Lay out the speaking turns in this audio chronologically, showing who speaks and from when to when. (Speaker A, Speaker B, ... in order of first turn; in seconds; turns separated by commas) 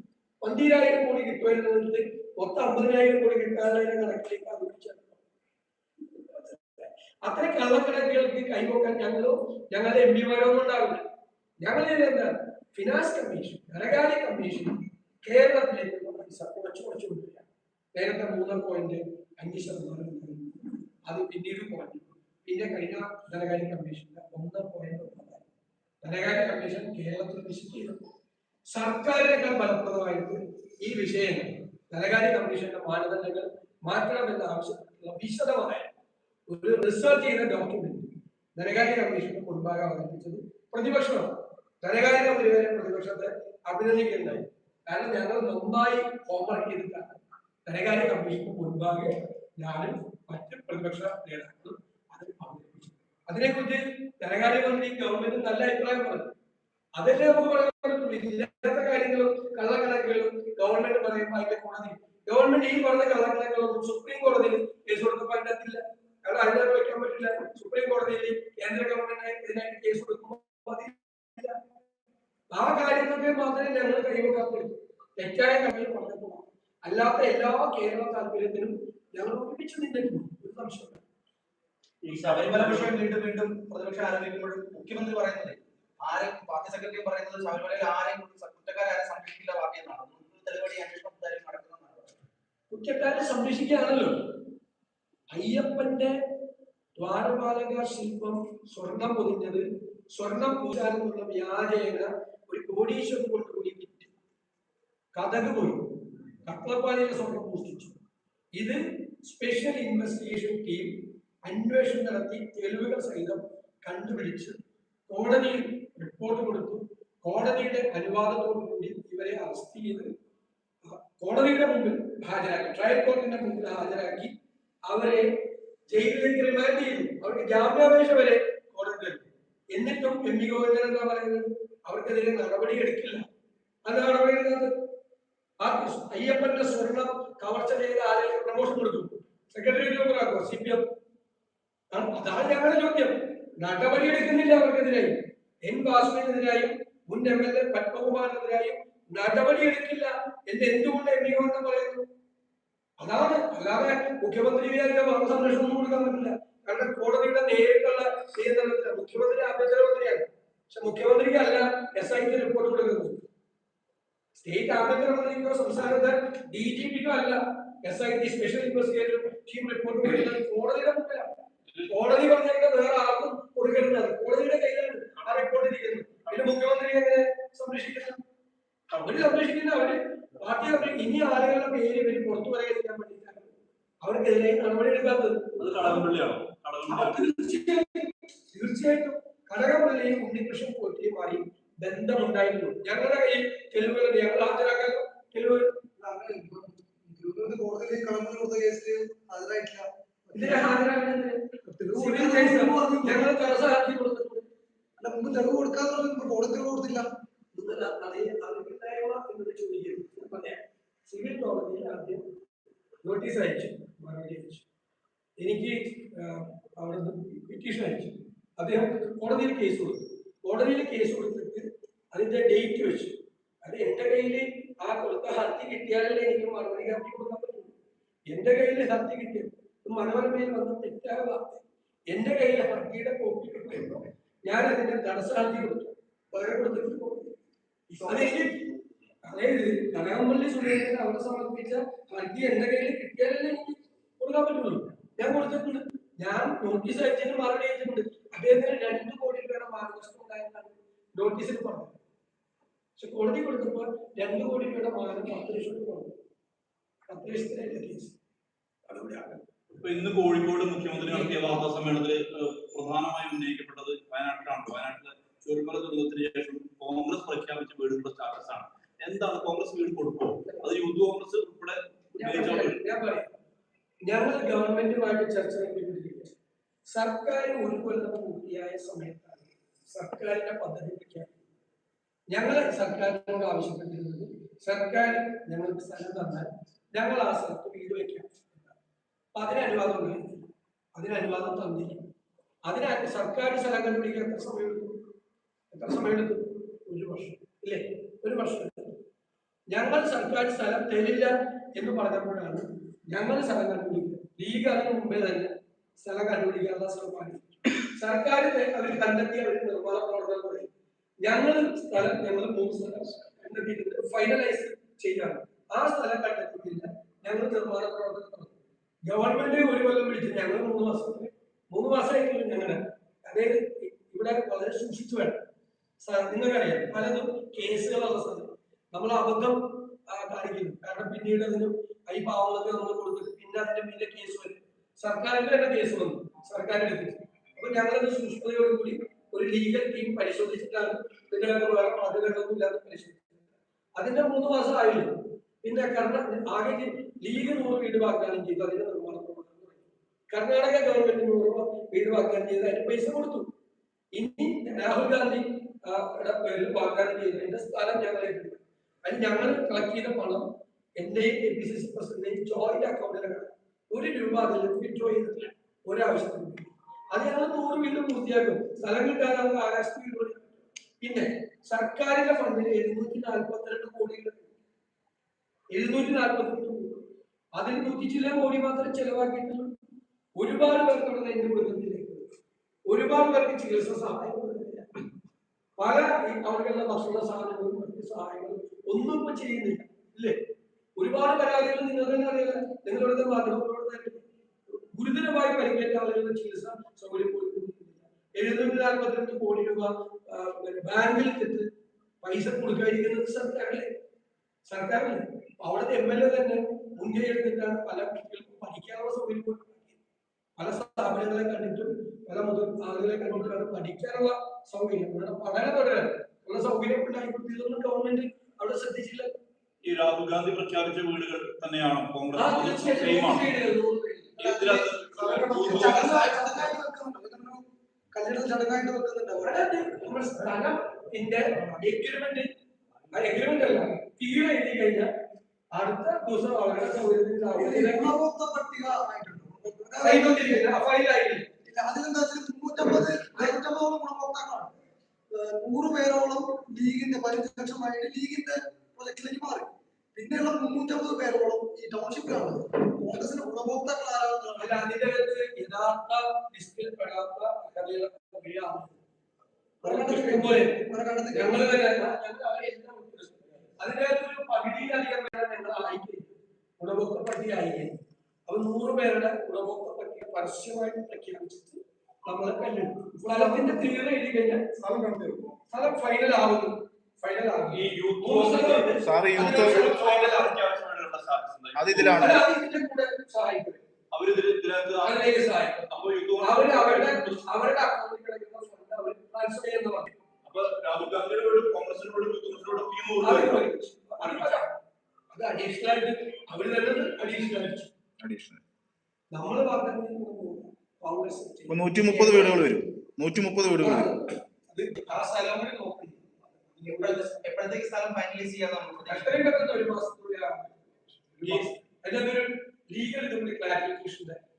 Speaker A: 0.4-5.2, Speaker A: 6.1-11.0, Speaker A: 11.6-25.4, Speaker A: 26.0-27.9, Speaker A: 28.7-35.9, Speaker A: 36.5-56.3, Speaker A: 57.0-71.6, Speaker A: 72.5-81.0, Speaker B: 82.0-83.0, Speaker C: 82.1-92.2, Speaker A: 92.7-94.2, Speaker A: 95.3-96.1, Speaker A: 97.0-104.1, Speaker A: 105.1-105.9, Speaker A: 106.4-108.0, Speaker A: 108.5-114.6, Speaker A: 115.1-120.1, Speaker A: 120.8-124.3, Speaker A: 124.9-125.3, Speaker A: 125.9-133.3, Speaker A: 133.8-134.7, Speaker A: 135.6-140.9, Speaker A: 141.9-152.1, Speaker A: 153.0-163.2, Speaker A: 164.4-171.3, Speaker A: 171.9-178.2, Speaker B: 178.9-179.3, Speaker A: 179.0-186.1, Speaker B: 185.6-187.2, Speaker A: 186.9-195.7, Speaker D: 196.0-200.7, Speaker A: 200.3-201.4, Speaker D: 201.7-203.3, Speaker A: 201.9-204.5, Speaker D: 205.0-207.1, Speaker A: 207.5-212.2, Speaker A: 213.0-214.6, Speaker A: 215.4-227.7, Speaker A: 228.3-237.3, Speaker D: 237.9-238.3, Speaker A: 238.0-238.7, Speaker A: 239.2-252.0, Speaker A: 253.0-256.1, Speaker A: 257.1-258.1, Speaker A: 258.9-259.4, Speaker B: 259.8-272.8, Speaker A: 261.0-261.6, Speaker A: 272.2-273.3, Speaker A: 274.1-276.3, Speaker A: 276.9-281.4, Speaker A: 282.3-288.7, Speaker A: 289.3-292.0, Speaker A: 292.6-295.0, Speaker A: 295.7-299.0, Speaker A: 299.7-310.7, Speaker A: 311.2-325.4, Speaker A: 326.0-343.4, Speaker A: 344.0-353.5, Speaker A: 354.1-374.5, Speaker A: 375.7-377.0, Speaker A: 377.6-379.7, Speaker A: 380.4-382.2, Speaker A: 382.9-384.9, Speaker A: 385.8-390.4, Speaker A: 391.0-401.7, Speaker A: 402.2-403.9, Speaker A: 404.7-410.0, Speaker A: 410.6-419.3, Speaker B: 419.8-423.5, Speaker A: 422.4-424.4, Speaker D: 424.4-429.7, Speaker B: 424.4-426.6, Speaker A: 425.2-426.3, Speaker A: 429.4-432.5, Speaker A: 433.1-435.1, Speaker A: 435.7-438.1, Speaker D: 437.5-440.7, Speaker A: 440.0-441.5, Speaker D: 441.6-444.8, Speaker D: 445.3-454.8, Speaker A: 454.6-459.0, Speaker D: 459.8-461.7, Speaker A: 459.8-467.9, Speaker A: 468.5-474.6, Speaker D: 473.2-473.9, Speaker D: 474.8-475.6, Speaker A: 475.7-480.6, Speaker B: 477.7-482.4, Speaker E: 479.0-479.8, Speaker C: 481.8-482.4, Speaker A: 482.1-483.8, Speaker B: 484.1-485.4, Speaker A: 485.0-490.1, Speaker B: 485.9-487.4, Speaker B: 490.4-493.7, Speaker A: 493.2-494.7, Speaker B: 494.2-494.6, Speaker A: 495.3-497.9, Speaker E: 498.2-498.6, Speaker A: 499.3-502.8, Speaker E: 501.8-504.0, Speaker A: 503.8-507.4, Speaker C: 506.8-509.4, Speaker A: 509.1-514.4